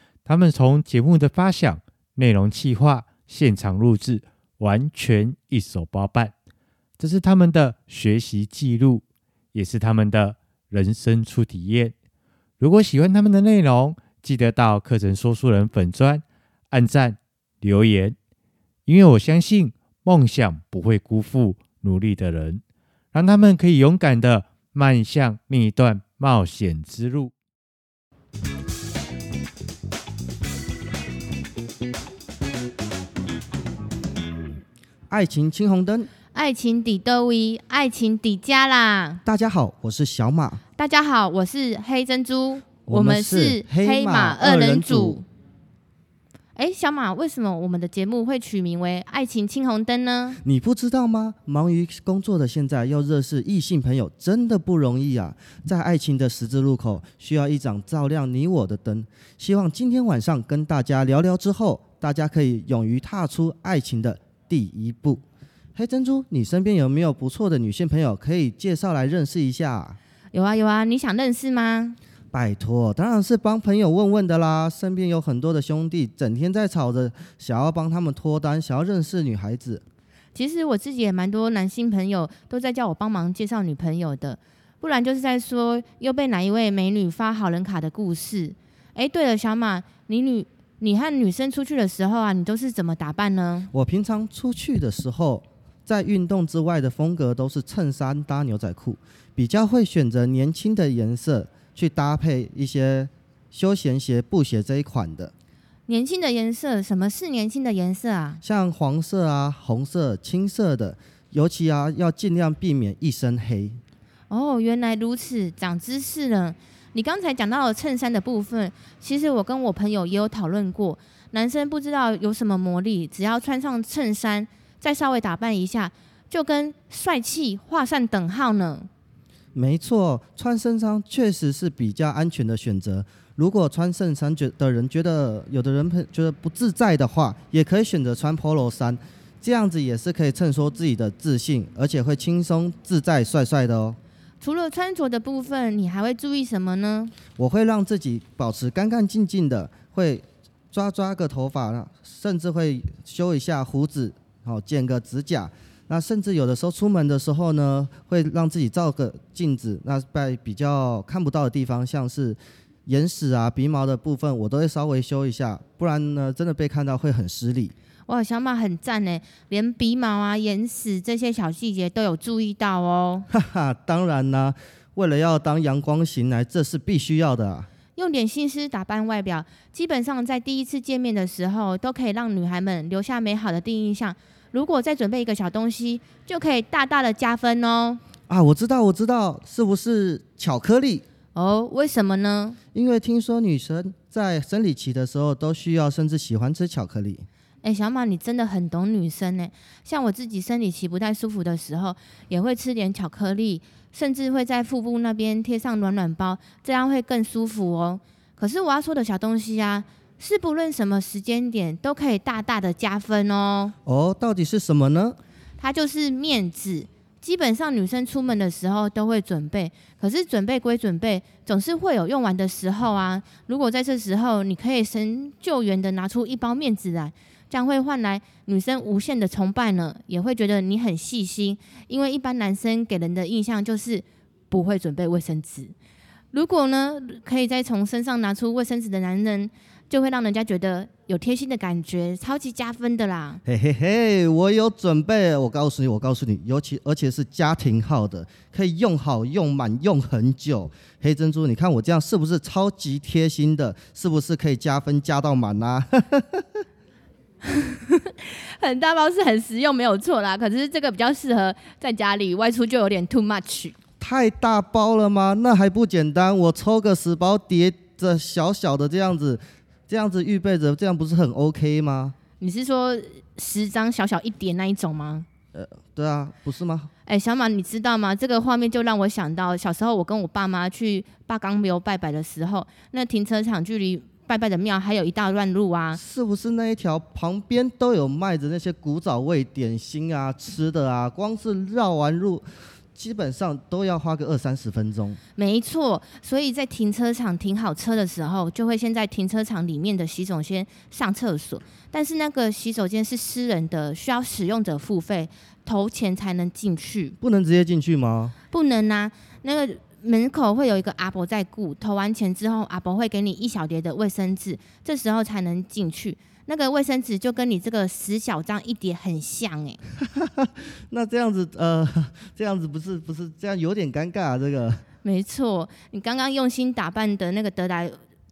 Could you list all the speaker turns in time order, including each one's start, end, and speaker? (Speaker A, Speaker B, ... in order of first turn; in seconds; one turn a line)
Speaker A: 0.3-6.3
Speaker A: 7.0-9.0
Speaker A: 9.5-11.9
Speaker A: 12.6-18.2
Speaker A: 18.9-22.6
Speaker A: 23.1-27.3
Speaker B: 35.1-36.1
Speaker C: 36.3-39.2
Speaker B: 39.2-40.6
Speaker C: 40.8-45.2
Speaker B: 42.9-45.2
Speaker C: 46.5-50.4
Speaker B: 50.4-65.2
Speaker B: 65.8-70.0
Speaker C: 70.3-72.0
Speaker B: 72.3-79.8
Speaker C: 80.3-93.7
Speaker B: 93.7-105.3
Speaker C: 105.9-108.4
Speaker B: 108.4-113.8
Speaker C: 114.3-128.9
Speaker B: 129.6-144.0
Speaker C: 144.4-147.1
Speaker B: 147.4-167.7
Speaker C: 168.1-173.3
Speaker B: 173.3-177.7
Speaker C: 177.9-188.0
Speaker B: 188.3-191.1
Speaker C: 191.3-192.6
Speaker B: 192.7-197.2
Speaker C: 197.6-213.7
Speaker B: 213.8-215.2
Speaker C: 215.6-235.7
Speaker C: 236.3-243.4
Speaker B: 243.5-256.4
Speaker C: 257.4-263.8
Speaker B: 264.0-272.2
Speaker C: 272.4-275.3
Speaker B: 275.5-276.9
Speaker C: 277.1-286.0
Speaker B: 285.9-295.2
Speaker C: 295.4-307.1
Speaker B: 307.2-308.4
Speaker C: 308.5-319.8
Speaker B: 320.2-324.8
Speaker C: 325.0-328.0